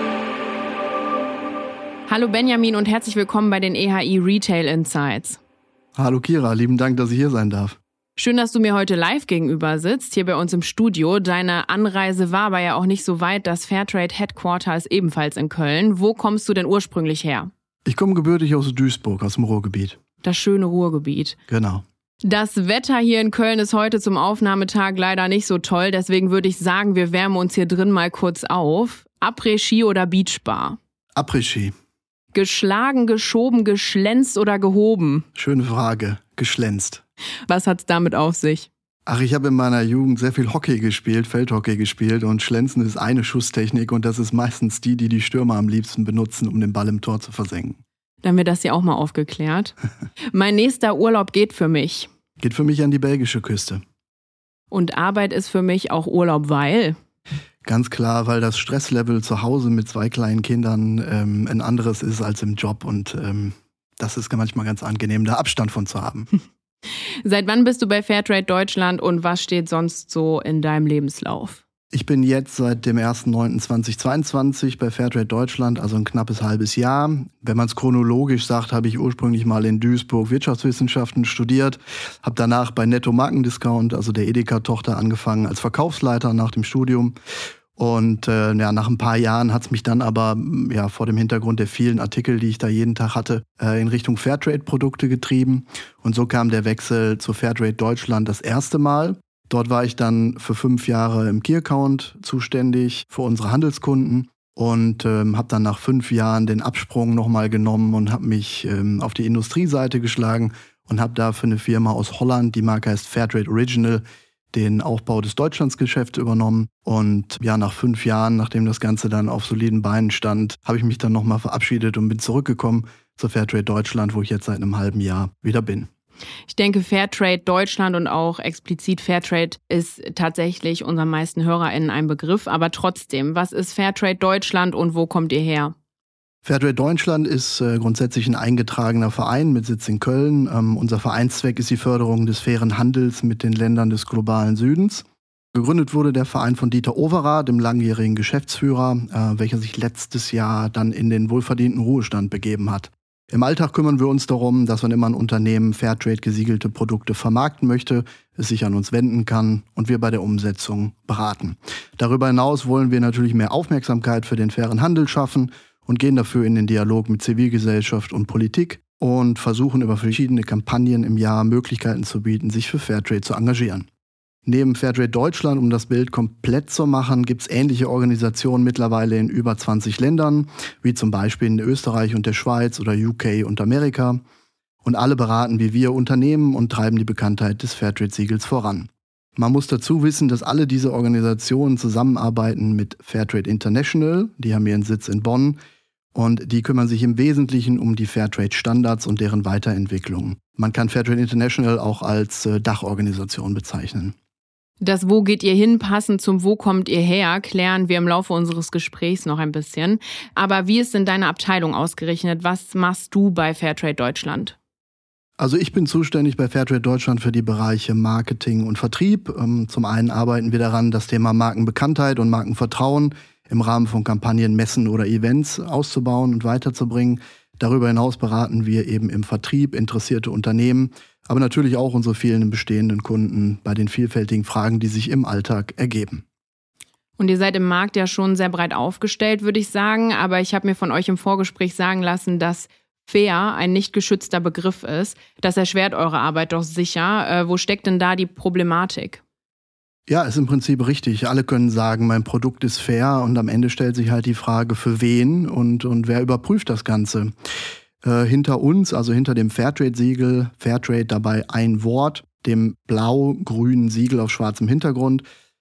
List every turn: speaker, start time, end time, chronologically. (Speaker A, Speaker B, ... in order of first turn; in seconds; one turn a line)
Speaker A: 2.1-5.4
Speaker B: 6.0-7.8
Speaker A: 8.2-17.5
Speaker B: 17.9-20.0
Speaker A: 20.2-21.4
Speaker B: 21.5-21.8
Speaker A: 22.2-30.8
Speaker B: 31.2-31.7
Speaker A: 32.3-35.2
Speaker B: 35.3-37.0
Speaker A: 37.5-38.7
Speaker B: 39.1-47.8
Speaker A: 48.2-49.7
Speaker A: 50.3-52.1
Speaker B: 52.4-53.8
Speaker A: 54.7-57.0
Speaker B: 57.6-66.3
Speaker A: 67.2-71.6
Speaker B: 71.9-87.1
Speaker B: 87.8-125.9
Speaker A: 126.5-135.8
Speaker B: 136.4-173.9
Speaker B: 174.4-184.2
Speaker B: 184.8-195.6
Speaker B: 196.1-204.1
Speaker A: 204.8-214.6
Speaker B: 215.4-236.2
Speaker A: 237.2-249.2
Speaker B: 250.1-257.3
Speaker B: 258.0-265.2